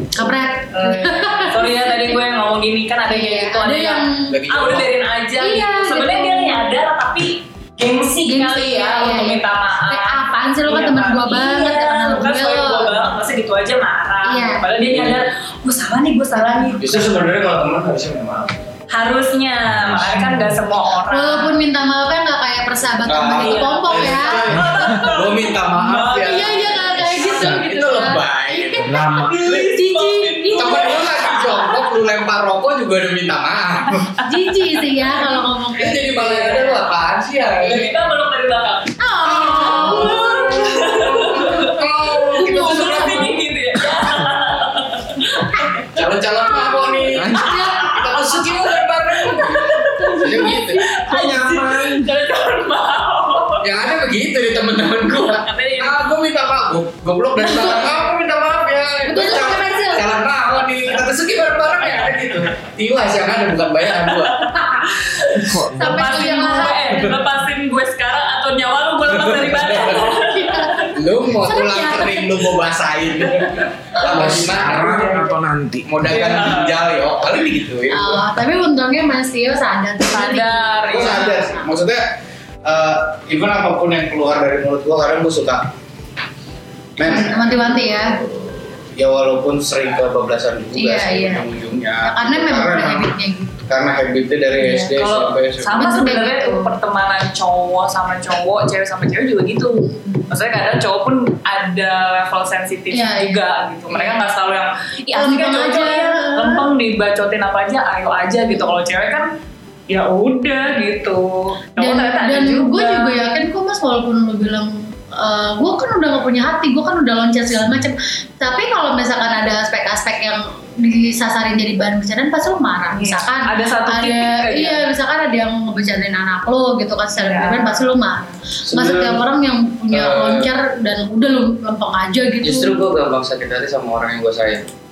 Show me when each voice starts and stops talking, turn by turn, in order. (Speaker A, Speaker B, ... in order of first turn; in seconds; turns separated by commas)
Speaker A: 0.2-2.2, Speaker B: 0.7-17.0, Speaker A: 3.1-4.4, Speaker C: 4.3-4.9, Speaker A: 5.4-6.8, Speaker A: 8.2-13.1, Speaker A: 14.2-14.7, Speaker C: 14.9-15.2, Speaker C: 16.8-18.5, Speaker B: 18.9-21.6, Speaker A: 21.1-24.6, Speaker C: 23.1-29.1, Speaker B: 23.1-27.1, Speaker D: 24.5-25.0, Speaker A: 26.1-30.9, Speaker D: 28.8-29.4, Speaker B: 29.2-31.8, Speaker C: 30.6-34.1, Speaker A: 34.2-36.7, Speaker C: 35.8-37.9, Speaker B: 37.5-45.8, Speaker A: 39.0-43.3, Speaker C: 39.3-43.3, Speaker C: 45.9-50.9, Speaker A: 46.4-48.6, Speaker B: 47.4-48.5, Speaker B: 49.2-53.7, Speaker A: 49.5-51.3, Speaker D: 51.1-52.0, Speaker C: 53.6-64.8, Speaker B: 55.2-56.0, Speaker A: 57.4-58.0, Speaker A: 59.0-60.1, Speaker B: 64.3-70.9, Speaker D: 65.4-66.4, Speaker A: 65.8-67.2, Speaker C: 69.1-70.0, Speaker A: 70.0-72.5, Speaker C: 70.9-75.2, Speaker D: 74.0-76.2, Speaker B: 74.7-75.3, Speaker C: 75.8-78.2, Speaker B: 76.0-76.8, Speaker A: 77.9-81.7, Speaker B: 80.1-81.5, Speaker C: 80.9-82.2, Speaker C: 82.7-85.7, Speaker C: 87.0-95.9, Speaker A: 87.0-88.2, Speaker A: 90.7-91.5, Speaker A: 92.0-93.6, Speaker B: 94.6-109.3, Speaker A: 95.7-96.7, Speaker A: 102.9-104.2, Speaker A: 105.1-106.7, Speaker B: 109.9-113.2, Speaker A: 111.8-132.8, Speaker B: 122.9-124.8, Speaker B: 127.2-127.8, Speaker C: 128.7-129.2, Speaker C: 129.9-130.5, Speaker C: 132.4-134.7